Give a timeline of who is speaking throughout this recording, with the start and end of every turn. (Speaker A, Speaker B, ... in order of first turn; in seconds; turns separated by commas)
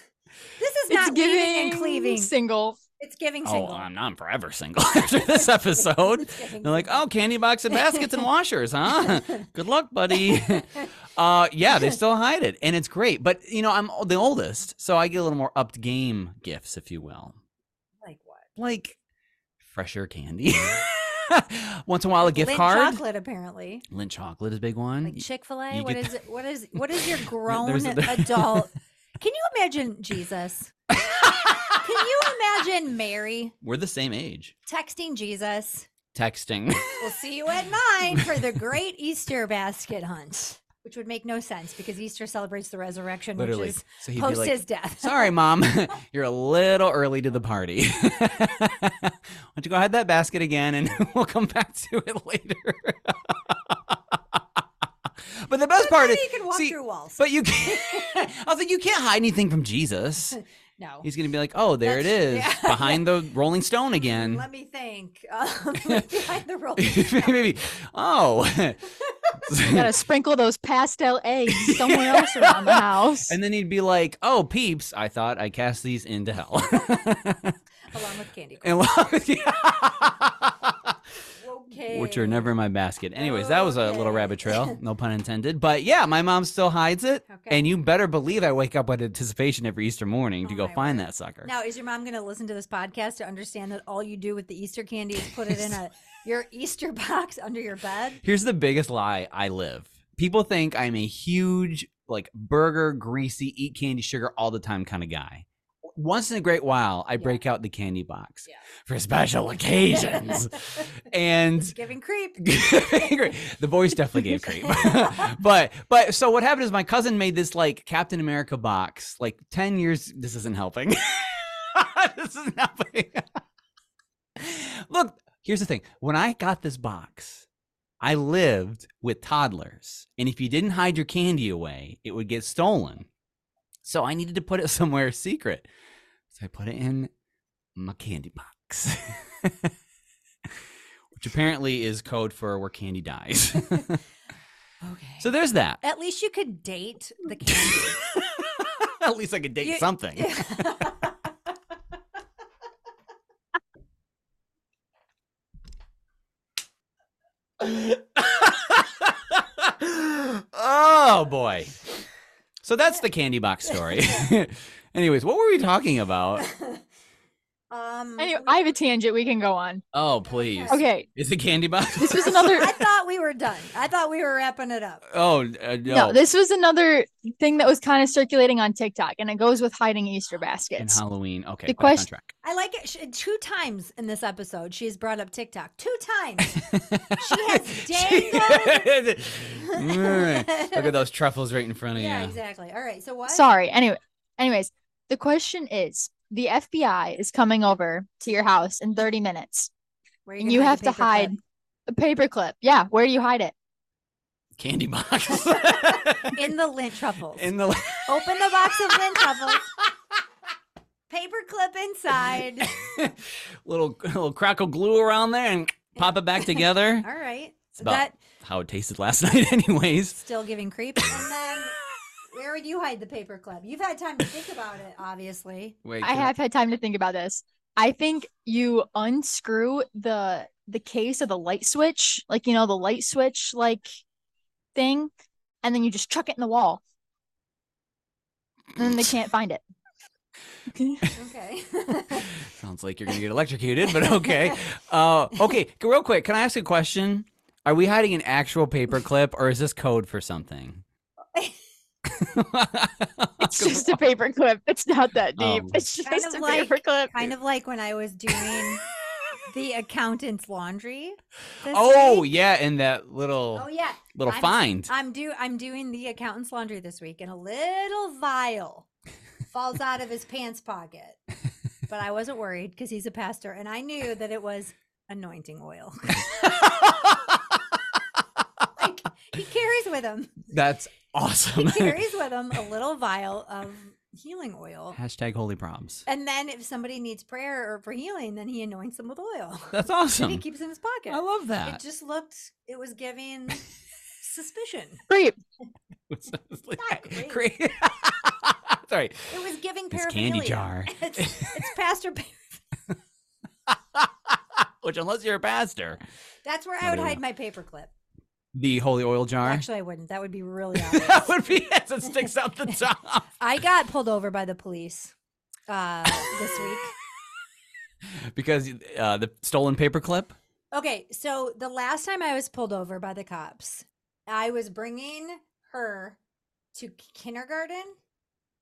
Speaker A: 0.6-2.3, Speaker B: 0.9-2.8, Speaker A: 3.0-3.9, Speaker C: 3.4-17.4, Speaker A: 5.8-7.0, Speaker A: 7.7-8.2, Speaker A: 9.0-9.4, Speaker A: 10.3-10.9, Speaker A: 18.0-18.5, Speaker C: 18.6-18.9, Speaker C: 19.6-23.0, Speaker A: 22.2-23.9, Speaker C: 23.9-26.2, Speaker A: 25.0-30.7, Speaker C: 26.8-28.7, Speaker C: 31.2-31.6, Speaker A: 31.8-33.5, Speaker C: 33.6-34.5, Speaker A: 34.6-35.9, Speaker C: 36.1-37.1, Speaker A: 37.0-45.3, Speaker C: 43.4-54.4, Speaker C: 55.4-60.4, Speaker A: 55.8-58.2, Speaker A: 60.3-61.1, Speaker C: 61.0-64.4, Speaker A: 61.8-63.1, Speaker A: 64.0-67.4, Speaker C: 66.8-68.8, Speaker C: 69.5-69.9, Speaker B: 69.7-73.4, Speaker C: 71.5-77.5, Speaker A: 77.9-78.8, Speaker C: 78.6-80.8, Speaker A: 81.4-82.5, Speaker C: 81.9-91.5, Speaker A: 83.2-84.8, Speaker A: 87.3-87.7, Speaker A: 90.4-98.2, Speaker C: 95.5-95.7, Speaker C: 98.2-111.8, Speaker A: 110.1-110.8, Speaker A: 111.7-112.4, Speaker C: 112.4-123.4, Speaker A: 114.5-115.3, Speaker C: 124.4-127.5, Speaker C: 128.0-133.1, Speaker C: 133.8-135.7, Speaker C: 136.3-137.1, Speaker C: 137.8-139.7, Speaker C: 141.1-144.0, Speaker A: 144.8-145.3, Speaker C: 145.2-145.8, Speaker A: 145.8-148.0, Speaker C: 148.8-150.4, Speaker A: 149.6-151.1, Speaker C: 157.6-161.8, Speaker C: 162.6-166.5, Speaker A: 163.7-164.3, Speaker A: 166.4-166.8, Speaker A: 167.7-168.6, Speaker B: 168.2-169.8, Speaker C: 169.9-172.7, Speaker A: 170.3-170.8, Speaker B: 170.7-171.1, Speaker B: 172.0-172.7, Speaker A: 172.1-175.1, Speaker C: 175.1-176.2, Speaker B: 175.9-181.0, Speaker C: 180.8-182.3, Speaker B: 181.7-182.1, Speaker A: 182.4-186.6, Speaker C: 186.5-192.3, Speaker A: 187.2-188.9, Speaker A: 189.6-190.9, Speaker A: 191.9-193.5, Speaker B: 193.3-199.7, Speaker A: 200.2-201.3, Speaker B: 200.4-203.5, Speaker C: 204.6-206.5, Speaker A: 205.7-207.5, Speaker C: 207.4-208.2, Speaker A: 208.0-209.7, Speaker A: 211.1-212.7, Speaker C: 212.7-217.1, Speaker A: 216.0-218.2, Speaker C: 217.8-220.2, Speaker A: 220.1-221.7, Speaker A: 222.3-225.8, Speaker C: 225.8-226.3, Speaker B: 226.0-233.8, Speaker B: 234.7-235.1, Speaker B: 235.6-236.8, Speaker B: 238.8-239.6, Speaker B: 240.7-241.1, Speaker A: 241.1-242.3, Speaker C: 242.1-250.8, Speaker A: 244.2-244.6, Speaker C: 252.2-254.0, Speaker B: 253.4-257.2, Speaker C: 255.4-255.8, Speaker A: 256.0-258.8, Speaker A: 259.5-262.3, Speaker C: 261.7-264.9, Speaker A: 263.5-268.9, Speaker A: 269.5-271.2, Speaker A: 271.9-277.2, Speaker A: 278.8-280.5, Speaker C: 280.5-282.0, Speaker A: 281.6-285.0, Speaker C: 284.9-286.0, Speaker A: 286.1-293.6, Speaker C: 289.7-290.4, Speaker C: 291.1-291.8, Speaker A: 294.2-295.0, Speaker B: 295.1-295.4, Speaker C: 296.1-299.3, Speaker A: 296.8-297.4, Speaker A: 299.3-302.6, Speaker C: 299.9-301.6, Speaker C: 303.9-306.0, Speaker A: 306.4-307.9, Speaker C: 306.8-307.2, Speaker C: 308.5-309.6, Speaker A: 309.4-311.4, Speaker C: 310.8-313.3, Speaker A: 313.4-315.1, Speaker A: 315.7-316.9, Speaker C: 318.3-320.4, Speaker A: 320.7-326.2, Speaker A: 326.7-327.9